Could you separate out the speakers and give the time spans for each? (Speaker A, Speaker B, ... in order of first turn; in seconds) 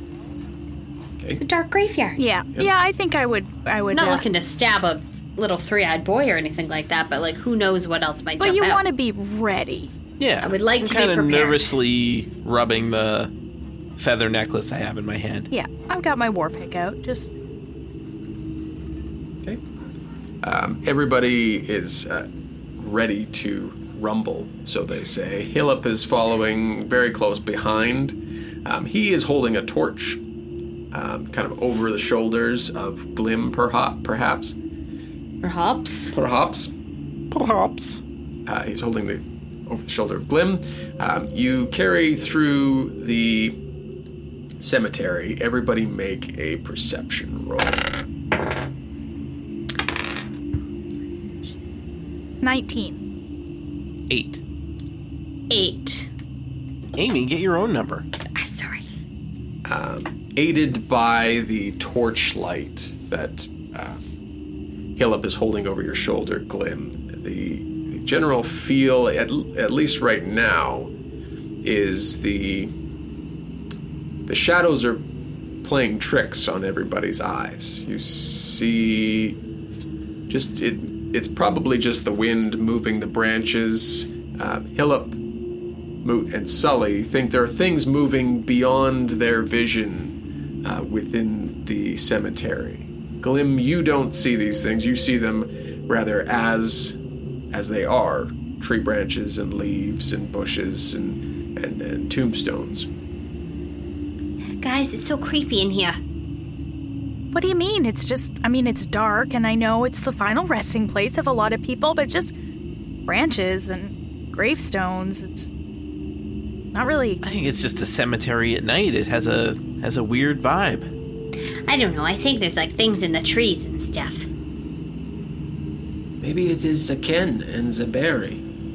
Speaker A: 1.4-2.2, 3.9-8.8, 10.4-11.6, 35.4-36.1, 55.5-56.1, 58.3-58.9, 104.5-106.0, 121.7-124.3
Speaker B: 2.2-4.2, 8.4-9.9, 15.5-17.3, 52.4-53.0, 107.3-112.3, 113.1-115.5, 116.7-117.2
Speaker C: 10.2-13.3, 14.0-15.5, 37.3-38.0, 54.1-54.4, 57.0-58.0, 117.2-120.9
Speaker D: 20.4-30.2, 30.9-34.5, 36.1-36.7, 38.5-43.5, 44.6-48.0, 59.6-64.0, 65.0-70.9, 71.6-72.7, 74.3-75.0, 75.6-79.4, 80.3-85.2, 86.0-97.0, 97.5-102.9, 126.2-128.4